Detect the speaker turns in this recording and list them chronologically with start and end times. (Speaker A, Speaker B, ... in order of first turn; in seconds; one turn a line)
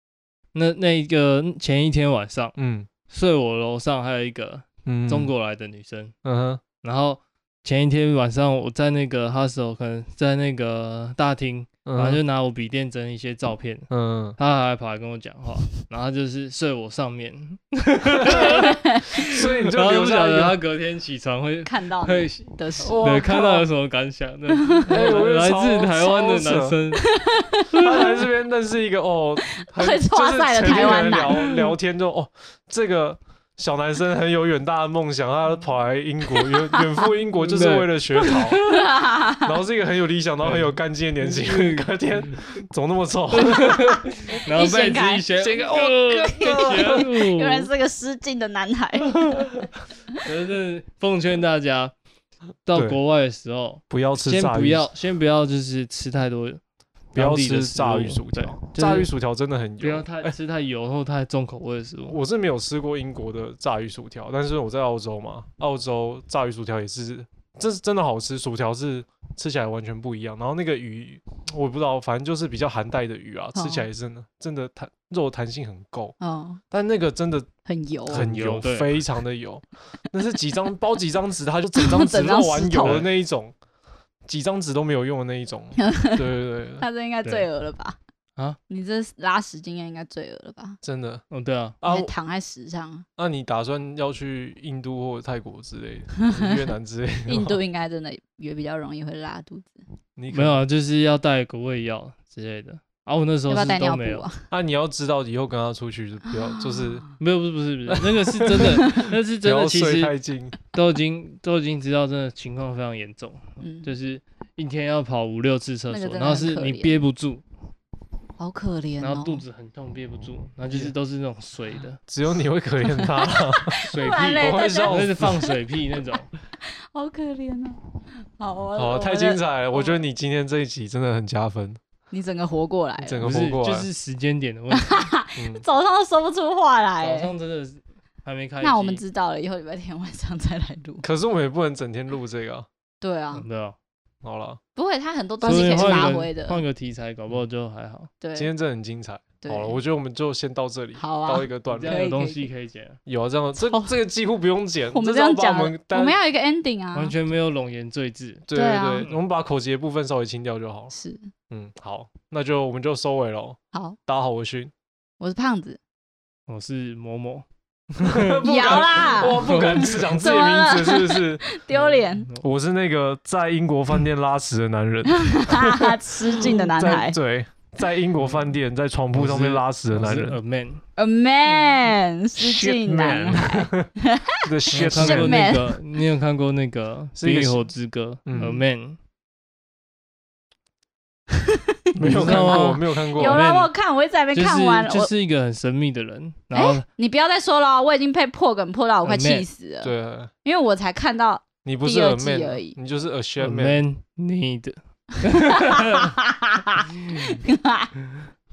Speaker A: 0.5-2.5
Speaker B: 2.6-2.9
Speaker A: 3.1-6.1
Speaker B: 4.9-5.3
Speaker B: 6.2-6.6
Speaker A: 6.8-27.1
Speaker B: 11.8-12.2
Speaker B: 13.9-14.4
Speaker B: 18.2-20.6
Speaker C: 18.2-19.1
Speaker C: 21.6-23.1
Speaker B: 22.8-23.7
Speaker C: 24.5-25.0
Speaker B: 24.9-26.8
Speaker C: 27.0-28.2
Speaker B: 27.7-38.6
Speaker C: 29.5-31.5
Speaker A: 31.3-31.6
Speaker C: 36.4-37.1
Speaker A: 37.4-38.9
Speaker C: 38.3-39.6
Speaker B: 39.4-44.1
Speaker A: 40.4-41.9
Speaker A: 43.3-47.7
Speaker C: 44.4-45.3
Speaker B: 44.6-47.1
Speaker C: 46.2-49.5
Speaker A: 50.2-51.9
Speaker A: 52.6-56.6
Speaker B: 52.7-53.0
Speaker B: 53.9-54.9
Speaker A: 57.1-59.1
Speaker B: 57.1-60.3
Speaker A: 59.8-62.2
Speaker B: 62.1-76.2
Speaker C: 73.5-73.9
Speaker C: 76.2-76.6
Speaker B: 76.7-77.5
Speaker C: 77.7-78.2
Speaker A: 78.1-79.0
Speaker B: 78.1-83.5
Speaker C: 81.8-83.0
Speaker A: 82.8-83.1
Speaker B: 84.3-86.8
Speaker C: 85.8-86.3
Speaker C: 86.8-88.0
Speaker C: 88.7-90.8
Speaker B: 90.8-91.2
Speaker A: 91.3-91.8
Speaker B: 91.8-92.1
Speaker C: 91.8-93.1
Speaker B: 93.2-97.6
Speaker C: 96.2-96.7
Speaker C: 97.3-99.8
Speaker B: 100.2-100.6
Speaker A: 100.3-104.3
Speaker C: 103.5-104.5
Speaker B: 104.5-107.1
Speaker C: 106.3-106.9
Speaker A: 107.2-110.1
Speaker B: 107.9-110.6
Speaker A: 110.6-117.4
Speaker C: 113.6-113.9
Speaker C: 115.9-117.0
Speaker C: 118.4-119.4
Speaker A: 119.0-122.0
Speaker B: 122.1-125.5
Speaker C: 122.8-125.5
Speaker A: 123.9-126.3
Speaker C: 126.6-130.0
Speaker B: 128.8-131.8
Speaker C: 132.1-133.2
Speaker B: 133.0-133.9
Speaker A: 133.2-135.1
Speaker C: 134.7-137.3
Speaker B: 135.4-135.6
Speaker A: 137.0-139.0
Speaker C: 138.6-141.1
Speaker B: 141.0-142.7
Speaker C: 143.0-143.4
Speaker A: 143.3-143.8
Speaker B: 144.2-144.6
Speaker C: 144.8-146.6
Speaker A: 145.4-148.1
Speaker B: 145.4-146.1
Speaker C: 148.2-148.5
Speaker B: 148.3-152.0
Speaker C: 149.4-149.8
Speaker C: 151.0-152.5
Speaker A: 151.7-153.0
Speaker B: 153.1-156.1
Speaker C: 153.6-153.9
Speaker C: 154.9-157.1
Speaker A: 156.9-158.4
Speaker B: 158.5-160.9
Speaker C: 158.5-159.1
Speaker C: 160.9-161.3
Speaker B: 161.5-164.7
Speaker C: 165.2-165.8
Speaker A: 166.5-168.4
Speaker B: 168.0-171.4
Speaker C: 168.4-172.3
Speaker A: 169.4-169.9
Speaker B: 172.4-180.4
Speaker C: 175.1-177.2
Speaker A: 178.2-178.5
Speaker A: 179.1-180.8
Speaker C: 181.0-185.8
Speaker B: 182.4-183.9
Speaker B: 184.5-185.6
Speaker A: 184.7-189.0
Speaker B: 187.2-187.6
Speaker B: 188.3-188.6
Speaker C: 191.4-195.1
Speaker B: 192.0-193.4
Speaker A: 192.0-193.7
Speaker A: 194.3-196.8
Speaker C: 196.5-199.9
Speaker A: 199.1-199.5
Speaker B: 199.8-200.3
Speaker C: 200.4-202.8
Speaker B: 201.6-203.8
Speaker A: 203.4-206.1
Speaker C: 205.3-207.9